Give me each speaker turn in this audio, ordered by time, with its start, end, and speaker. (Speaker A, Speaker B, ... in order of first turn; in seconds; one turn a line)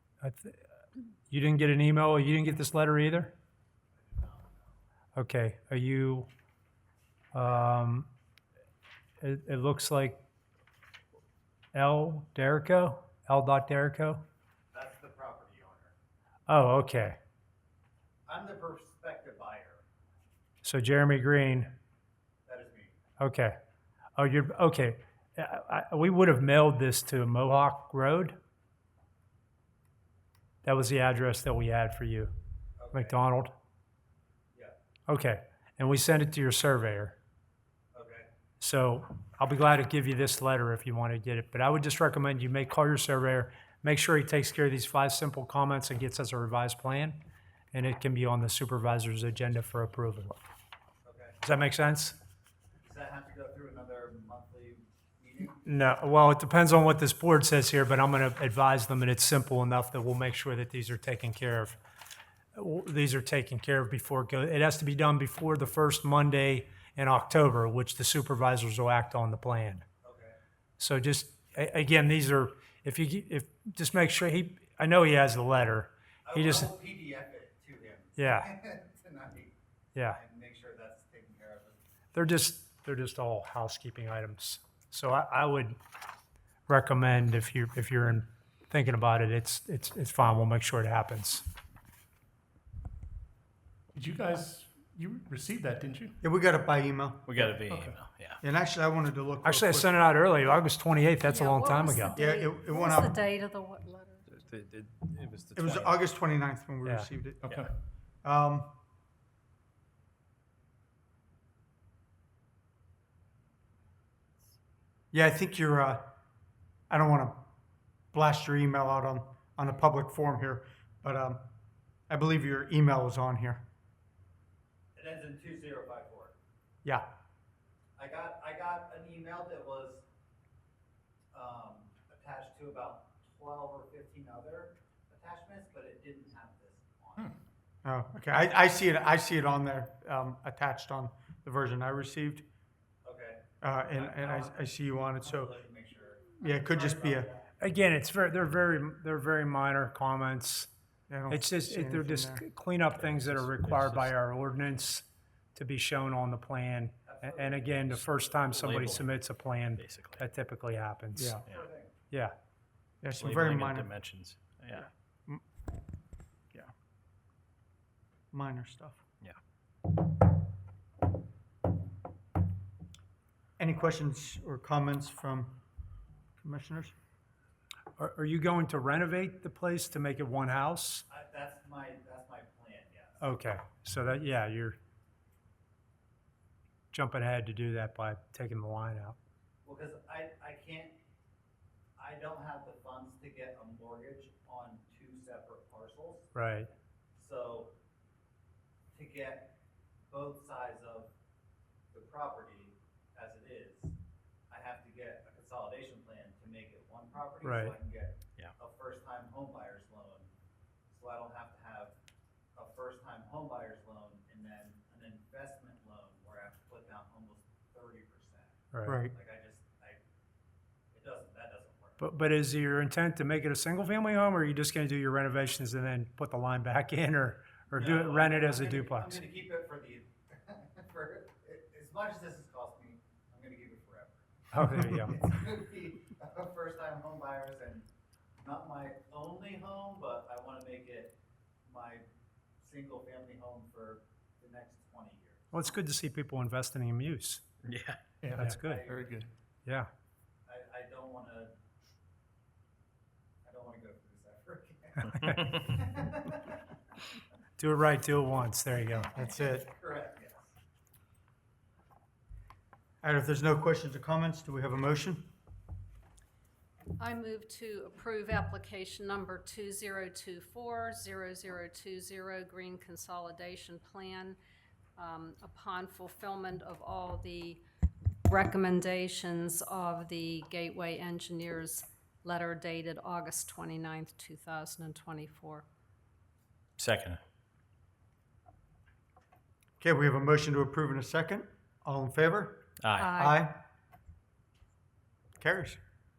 Speaker A: 0.2-0.6
Speaker A: 1.3-3.3
Speaker B: 4.0-4.8
Speaker A: 5.2-6.3
Speaker A: 7.3-8.1
Speaker A: 9.2-10.2
Speaker A: 11.7-14.2
Speaker B: 14.7-15.9
Speaker A: 16.5-17.2
Speaker B: 18.3-19.8
Speaker A: 20.6-21.7
Speaker B: 22.5-23.0
Speaker A: 23.2-23.6
Speaker A: 24.2-28.4
Speaker A: 30.6-32.3
Speaker B: 32.8-33.2
Speaker A: 32.9-33.5
Speaker A: 35.1-37.2
Speaker B: 37.9-38.3
Speaker A: 38.6-47.2
Speaker A: 47.7-50.4
Speaker B: 51.0-51.4
Speaker A: 51.4-52.2
Speaker B: 52.8-55.6
Speaker A: 55.6-61.8
Speaker A: 62.5-69.8
Speaker B: 70.0-70.3
Speaker A: 70.8-76.7
Speaker B: 76.2-81.8
Speaker A: 78.2-78.5
Speaker A: 82.1-85.8
Speaker A: 86.7-91.5
Speaker C: 93.9-96.2
Speaker D: 96.2-97.5
Speaker E: 97.2-98.4
Speaker C: 97.6-98.0
Speaker D: 98.4-100.1
Speaker A: 99.4-102.2
Speaker F: 101.2-104.3
Speaker D: 102.1-103.2
Speaker E: 104.3-106.0
Speaker D: 105.5-107.6
Speaker C: 107.4-107.7
Speaker D: 108.2-108.7
Speaker D: 115.1-116.1
Speaker D: 116.9-117.4
Speaker D: 118.1-121.4
Speaker D: 122.1-123.6
Speaker B: 125.0-126.3
Speaker B: 128.0-130.1
Speaker B: 131.3-137.4
Speaker D: 137.8-142.4
Speaker B: 143.1-144.6
Speaker D: 143.6-145.6
Speaker B: 145.2-147.6
Speaker D: 146.4-147.3
Speaker A: 147.6-150.7
Speaker D: 151.1-152.4
Speaker A: 151.3-161.4
Speaker E: 152.9-154.1
Speaker B: 157.1-157.8
Speaker E: 158.5-159.2
Speaker E: 159.8-160.2
Speaker D: 161.2-161.4
Speaker B: 161.5-161.9
Speaker D: 163.0-163.9
Speaker E: 163.2-164.9
Speaker D: 168.3-169.0
Speaker D: 173.6-175.6
Speaker D: 176.4-176.9
Speaker A: 178.0-181.0
Speaker B: 181.1-183.2
Speaker A: 183.2-184.8
Speaker A: 186.9-189.2
Speaker B: 189.7-190.9
Speaker B: 192.0-196.3
Speaker A: 196.3-196.7
Speaker B: 197.2-197.7
Speaker B: 198.9-199.5
Speaker B: 200.1-201.1
Speaker B: 201.9-203.9
Speaker B: 204.5-210.3
Speaker A: 207.4-207.8
Speaker B: 210.9-211.9
Speaker B: 212.6-218.6
Speaker A: 218.7-219.0
Speaker D: 218.8-219.1
Speaker B: 219.1-220.0
Speaker B: 220.9-222.0
Speaker A: 222.0-229.2
Speaker B: 227.7-237.9
Speaker A: 234.5-235.2
Speaker B: 238.4-241.1
Speaker B: 241.7-242.0
Speaker B: 242.6-245.7
Speaker A: 245.5-247.4
Speaker E: 247.6-248.0
Speaker C: 248.2-249.3
Speaker B: 248.3-249.2
Speaker A: 248.4-248.8
Speaker B: 250.5-251.5
Speaker B: 253.4-256.6
Speaker A: 257.6-259.1
Speaker B: 258.9-260.5
Speaker D: 259.1-259.7
Speaker D: 263.0-265.3
Speaker F: 267.0-274.4
Speaker F: 275.0-277.6
Speaker F: 278.3-285.6
Speaker E: 286.8-287.2
Speaker D: 289.8-293.6
Speaker E: 292.8-293.2
Speaker F: 293.0-293.5
Speaker D: 295.4-295.8